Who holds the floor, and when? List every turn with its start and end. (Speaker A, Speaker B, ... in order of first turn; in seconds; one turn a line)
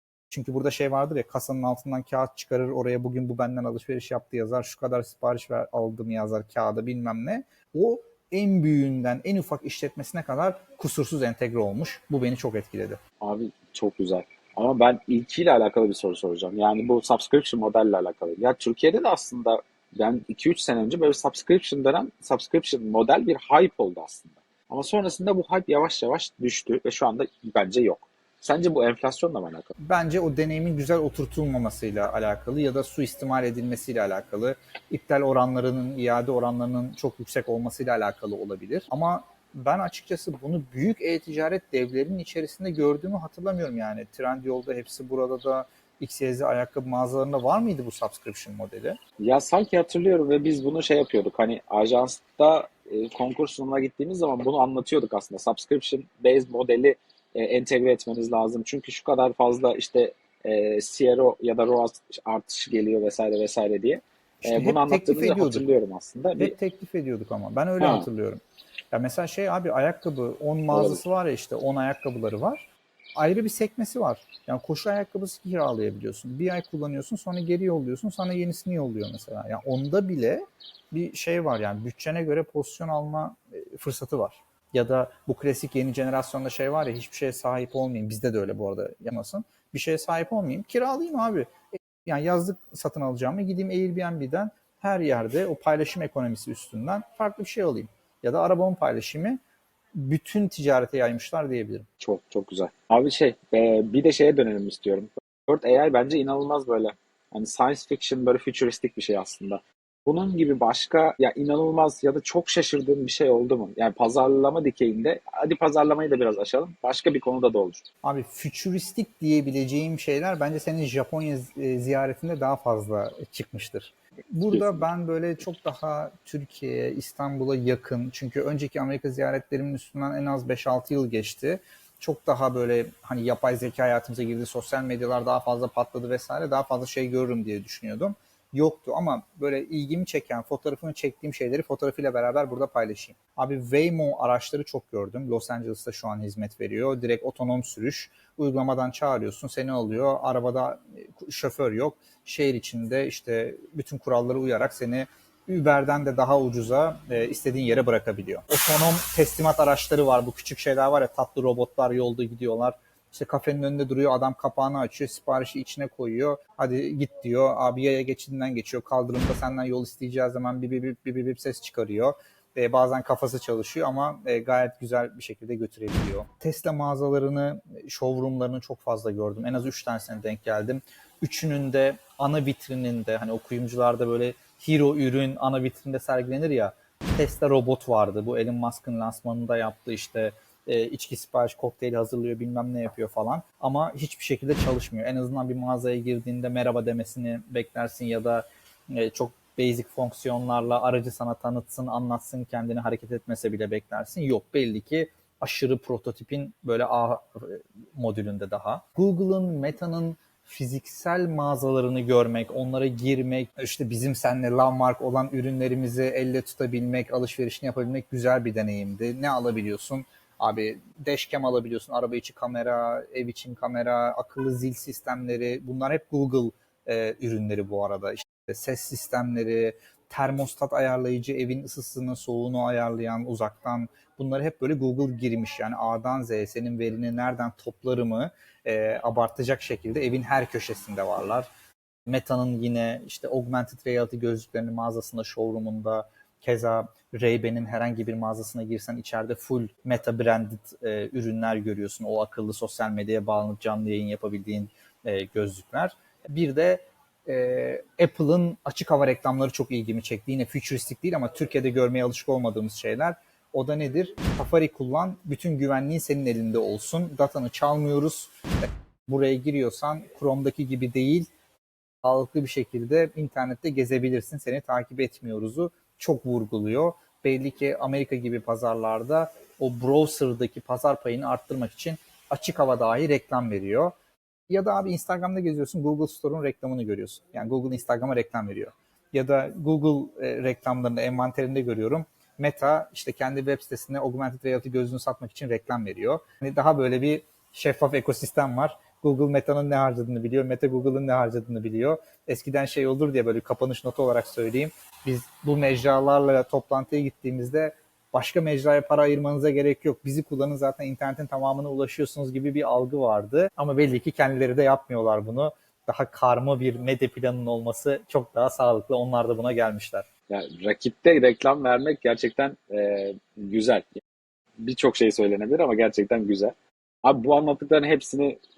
Speaker A: 0.3-13.0
Speaker B: 13.2-29.7
Speaker A: 29.8-49.0
Speaker B: 49.2-66.5
Speaker A: 64.4-65.7
Speaker A: 66.4-68.4
Speaker B: 67.8-68.0
Speaker A: 68.9-91.5
Speaker B: 70.7-71.0
Speaker A: 92.0-99.4
Speaker A: 99.9-101.9
Speaker B: 102.0-117.8
Speaker A: 118.0-241.5
Speaker B: 124.5-124.8
Speaker A: 242.1-268.3
Speaker A: 269.1-271.3
Speaker A: 272.0-283.9
Speaker A: 284.5-320.1
Speaker B: 320.3-323.9
Speaker B: 324.6-328.4